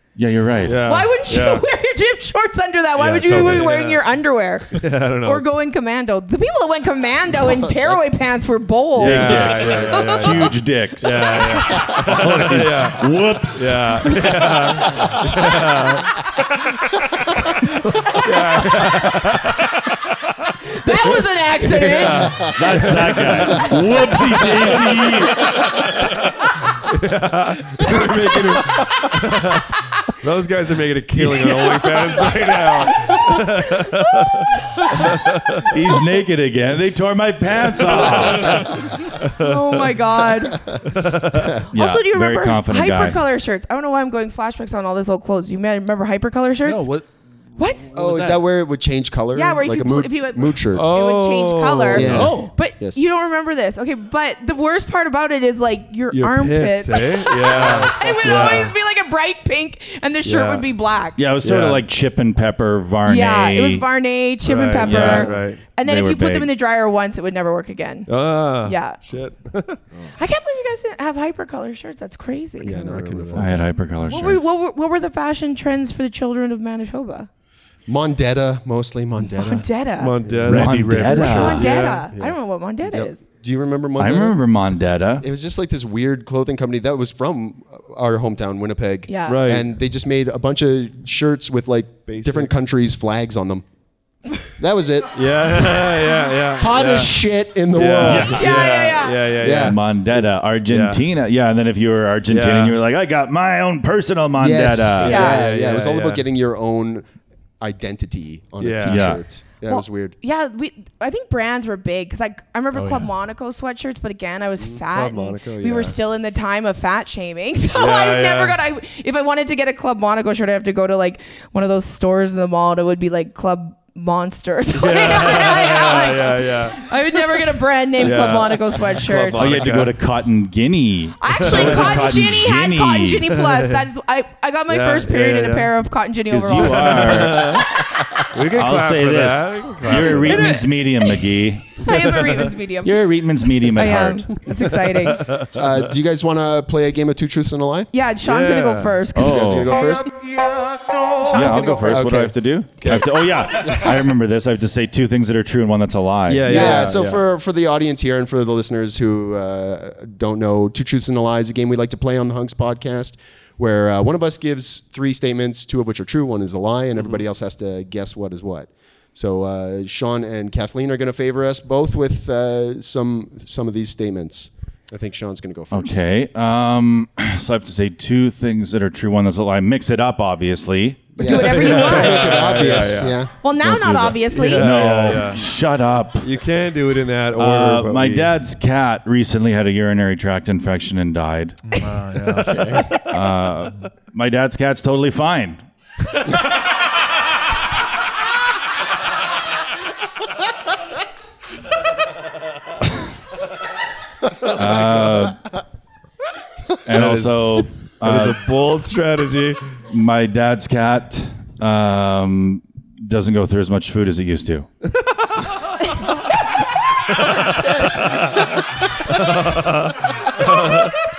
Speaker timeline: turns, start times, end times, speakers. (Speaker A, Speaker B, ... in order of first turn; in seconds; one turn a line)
Speaker A: 0.1-0.8
Speaker B: 0.6-1.6
Speaker C: 0.8-10.5
Speaker B: 3.0-4.0
Speaker D: 3.3-3.7
Speaker B: 4.7-5.4
Speaker E: 7.4-8.1
Speaker B: 9.0-16.1
Speaker A: 9.0-13.9
Speaker B: 17.9-19.6
Speaker C: 20.6-22.3
Speaker B: 21.6-23.8
Speaker A: 22.4-25.4
Speaker B: 24.6-24.9
Speaker B: 25.4-26.1
Speaker B: 26.8-35.7
Speaker C: 28.6-29.1
Speaker C: 33.2-34.9
Speaker A: 35.7-38.8
Speaker B: 37.7-40.0
Speaker C: 39.4-40.7
Speaker B: 40.9-41.6
Speaker C: 41.7-46.9
Speaker A: 41.7-43.2
Speaker D: 46.6-47.1
Speaker C: 47.6-47.9
Speaker D: 47.9-48.4
Speaker E: 47.9-50.9
Speaker C: 49.3-61.2
Speaker B: 50.7-52.3
Speaker E: 51.9-53.0
Speaker D: 52.0-52.5
Speaker B: 56.1-58.7
Speaker E: 57.5-58.7
Speaker B: 60.2-60.7
Speaker A: 61.2-63.8
Speaker B: 61.4-61.8
Speaker C: 63.0-68.1
Speaker B: 64.4-65.6
Speaker A: 64.8-65.3
Speaker E: 65.0-65.4
Speaker A: 65.8-66.5
Speaker B: 68.1-69.8
Speaker C: 68.6-69.0
Speaker C: 70.2-72.9
Speaker E: 72.6-73.6
Speaker B: 72.6-73.6
Speaker A: 73.3-74.4
Speaker C: 74.0-77.3
Speaker E: 77.9-79.7
Speaker C: 79.3-80.2
Speaker B: 80.0-82.1
Speaker E: 80.2-80.7
Speaker D: 80.5-81.5
Speaker A: 80.5-81.7
Speaker C: 81.1-83.2
Speaker E: 82.1-84.4
Speaker A: 84.0-85.3
Speaker E: 85.2-93.6
Speaker C: 89.1-89.4
Speaker B: 89.3-89.7
Speaker B: 92.1-92.5
Speaker E: 94.6-95.9
Speaker B: 95.1-97.2
Speaker E: 96.6-98.7
Speaker B: 97.7-101.0
Speaker A: 98.0-98.8
Speaker C: 98.4-99.2
Speaker E: 99.4-99.8
Speaker A: 99.4-105.2
Speaker B: 102.3-102.8
Speaker E: 104.4-107.1
Speaker B: 105.0-106.2
Speaker C: 105.0-105.4
Speaker E: 107.6-110.1
Speaker B: 108.6-109.0
Speaker A: 108.8-109.2
Speaker C: 109.6-129.6
Speaker D: 112.7-113.1
Speaker B: 114.8-116.0
Speaker B: 117.7-118.6
Speaker B: 124.7-127.4
Speaker B: 128.0-129.9
Speaker A: 129.3-133.3
Speaker C: 131.2-137.4
Speaker B: 131.4-132.3
Speaker B: 133.3-133.8
Speaker B: 134.7-135.7
Speaker A: 136.3-137.6
Speaker B: 136.8-137.7
Speaker B: 138.3-140.6
Speaker A: 138.5-141.9
Speaker C: 140.2-140.7
Speaker C: 141.8-143.0
Speaker B: 141.8-142.4
Speaker A: 142.8-144.3
Speaker C: 143.8-145.3
Speaker B: 144.9-145.7
Speaker E: 145.5-147.9
Speaker C: 147.9-150.0
Speaker B: 148.2-149.0
Speaker A: 149.1-149.7
Speaker E: 149.2-150.1
Speaker C: 151.2-151.9
Speaker E: 151.3-152.3
Speaker A: 151.3-156.9
Speaker B: 152.8-153.1
Speaker E: 153.7-153.9
Speaker B: 156.3-157.2
Speaker E: 156.4-176.0
Speaker A: 175.7-181.2
Speaker E: 181.2-183.3
Speaker C: 181.2-182.7
Speaker B: 181.2-183.2
Speaker C: 183.4-185.1
Speaker A: 183.6-186.3
Speaker B: 184.3-185.4
Speaker B: 186.2-188.3
Speaker A: 187.4-191.6
Speaker D: 191.7-193.0
Speaker E: 192.4-192.8
Speaker A: 193.1-195.6
Speaker A: 204.5-205.4
Speaker A: 206.8-208.4
Speaker B: 206.9-209.6
Speaker A: 209.9-214.7
Speaker B: 217.3-218.2
Speaker B: 219.1-220.9